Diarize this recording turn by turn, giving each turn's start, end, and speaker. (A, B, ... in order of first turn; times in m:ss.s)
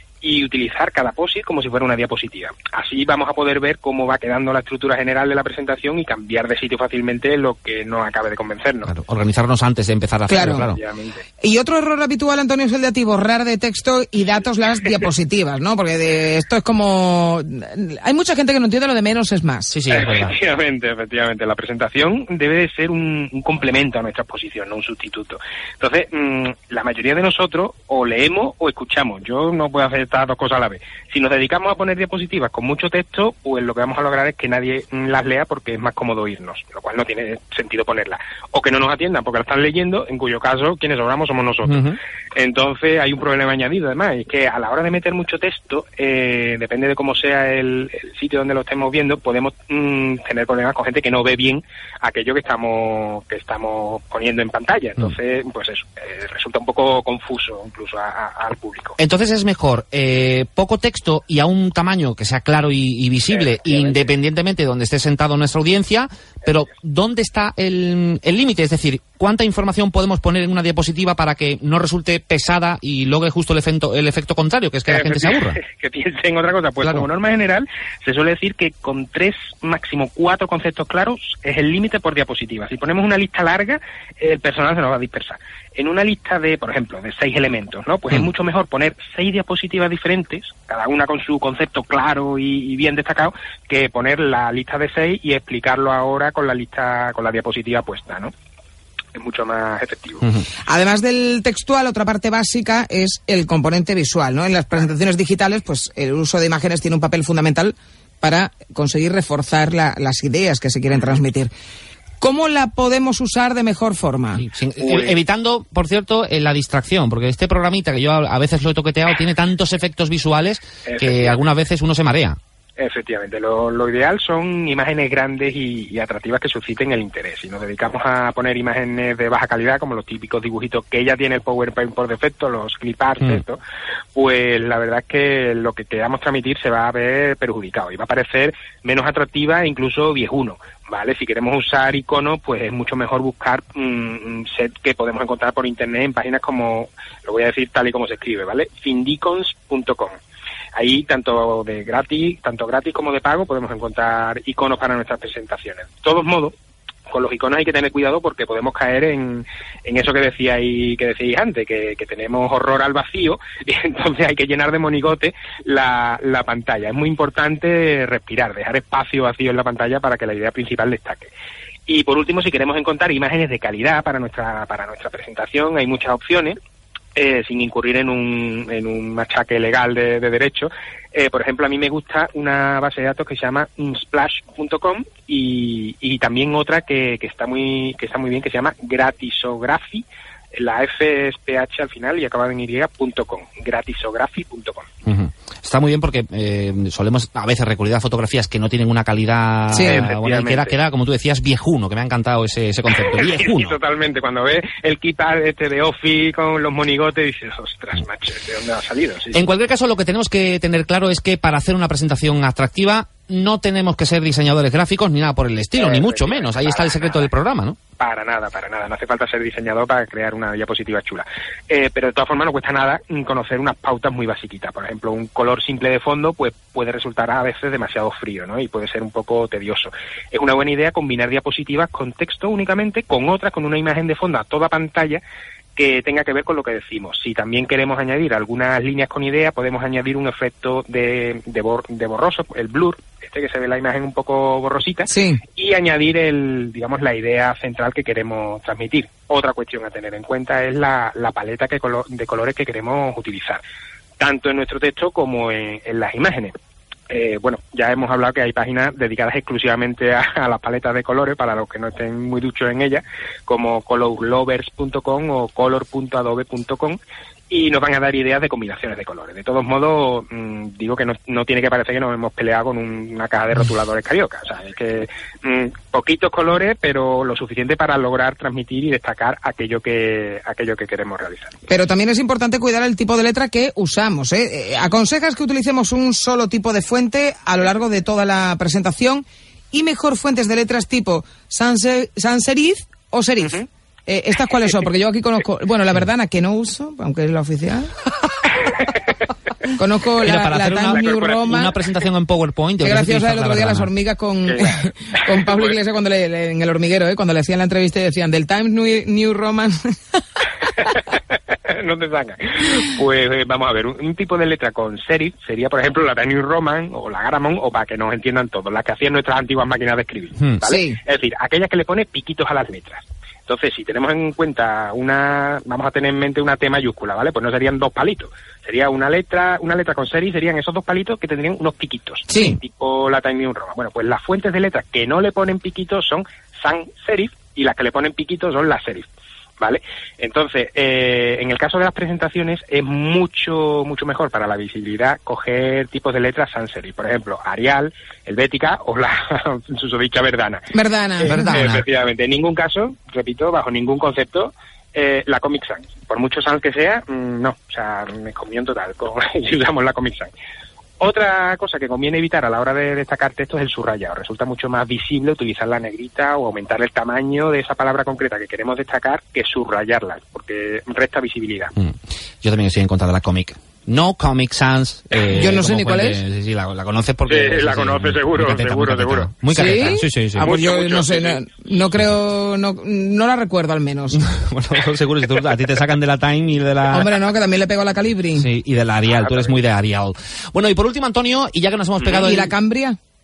0:00.2-0:08.9 A
0:08.9-0:10.8 B
0:10.3-0:10.7 C
0:10.4-0:11.2 A
0:11.4-0:19.7 C
0:19.7-0:20.3 B
0:19.9-0:59.0 A
0:41.7-0:42.0 B
0:59.0-1:15.6 B
1:03.3-1:04.1 A
1:14.9-1:38.3 A
1:16.8-1:17.1 B
1:39.2-1:40.4 A
1:40.7-1:51.5 C
1:52.2-1:54.4 C
1:54.4-2:02.4 B
1:54.8-1:55.2 A
2:00.9-2:01.4 A
2:02.8-2:13.6 A
2:14.1-2:30.2 A
2:30.8-2:36.5 A
2:37.1-2:51.3 A
2:51.9-2:56.6 A
2:57.2-3:14.9 A
3:15.1-3:23.8 B
3:19.7-3:20.0 C
3:19.7-3:20.8 A
3:23.0-3:29.5 A
3:29.3-3:37.8 B
3:35.8-3:37.3 A
3:38.0-3:55.2 A
3:55.8-4:13.6 A
4:05.1-4:05.4 C
4:14.2-4:16.5 A
4:17.1-4:41.5 A
4:41.7-4:57.9 C
4:53.4-4:53.7 A
4:59.7-5:01.8 C
5:00.2-5:03.9 B
5:00.9-5:01.6 A
5:02.8-5:09.8 C
5:04.4-5:05.7 A
5:10.9-5:39.1 A
5:20.6-5:21.0 C
5:32.3-5:32.6 C
5:39.6-6:00.3 A
5:50.7-5:51.6 C
5:51.2-5:51.8 B
6:01.0-6:11.7 A
6:11.8-6:20.5 B
6:15.3-6:16.2 C
6:17.3-6:19.3 A
6:19.5-6:24.2 C
6:20.4-6:21.4 A
6:24.1-6:27.1 B
6:26.9-6:28.5 C
6:28.4-6:32.5 B
6:29.1-6:29.6 A
6:32.1-6:33.0 C